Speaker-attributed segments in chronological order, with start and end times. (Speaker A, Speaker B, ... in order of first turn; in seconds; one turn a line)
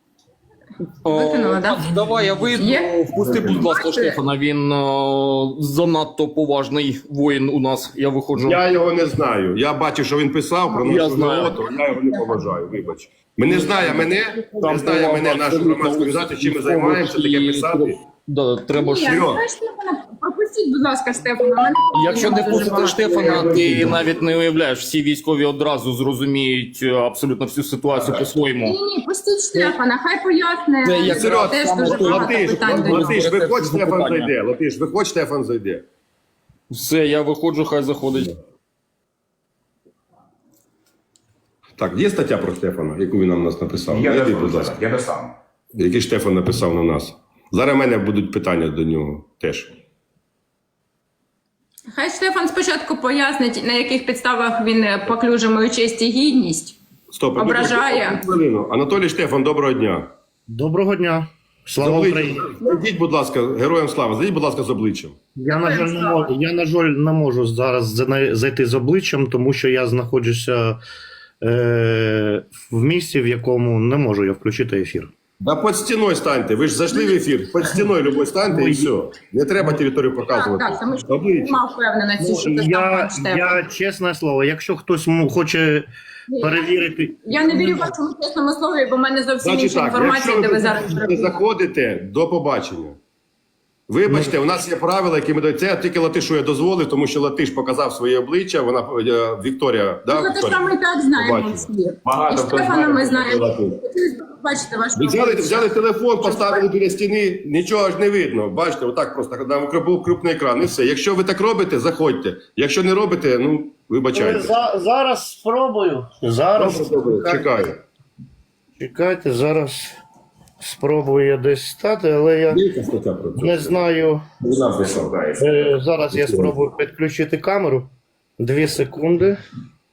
Speaker A: 1.0-8.6
Speaker B: 1.1-2.0
Speaker B: 2.5-4.2
Speaker C: 8.4-18.0
Speaker A: 10.8-11.6
Speaker A: 13.5-19.2
Speaker B: 18.7-23.5
Speaker C: 19.0-19.4
Speaker A: 21.9-28.8
Speaker C: 23.4-23.8
Speaker B: 28.6-33.2
Speaker A: 30.8-34.3
Speaker C: 31.0-35.8
Speaker A: 36.7-38.3
Speaker C: 41.8-44.8
Speaker D: 43.9-45.3
Speaker C: 45.7-49.7
Speaker B: 51.9-56.8
Speaker C: 57.1-60.1
Speaker B: 57.4-58.2
Speaker E: 60.5-62.6
Speaker C: 61.8-65.2
Speaker E: 65.4-70.8
Speaker B: 65.6-66.3
Speaker E: 71.4-75.1
Speaker C: 75.4-81.6
Speaker E: 78.5-78.9
Speaker B: 80.3-83.6
Speaker E: 82.2-85.9
Speaker B: 86.3-91.4
Speaker E: 86.4-87.9
Speaker C: 89.4-93.0
Speaker C: 93.9-103.8
Speaker E: 94.1-94.3
Speaker B: 100.1-105.7
Speaker D: 102.1-103.3
Speaker C: 105.0-114.5
Speaker B: 106.2-106.6
Speaker E: 114.1-117.7
Speaker C: 116.5-117.8
Speaker E: 118.8-120.0
Speaker E: 120.6-122.6
Speaker C: 122.5-123.9
Speaker E: 123.4-124.2
Speaker C: 124.4-125.4
Speaker D: 124.5-125.7
Speaker E: 125.3-129.4
Speaker C: 126.1-126.5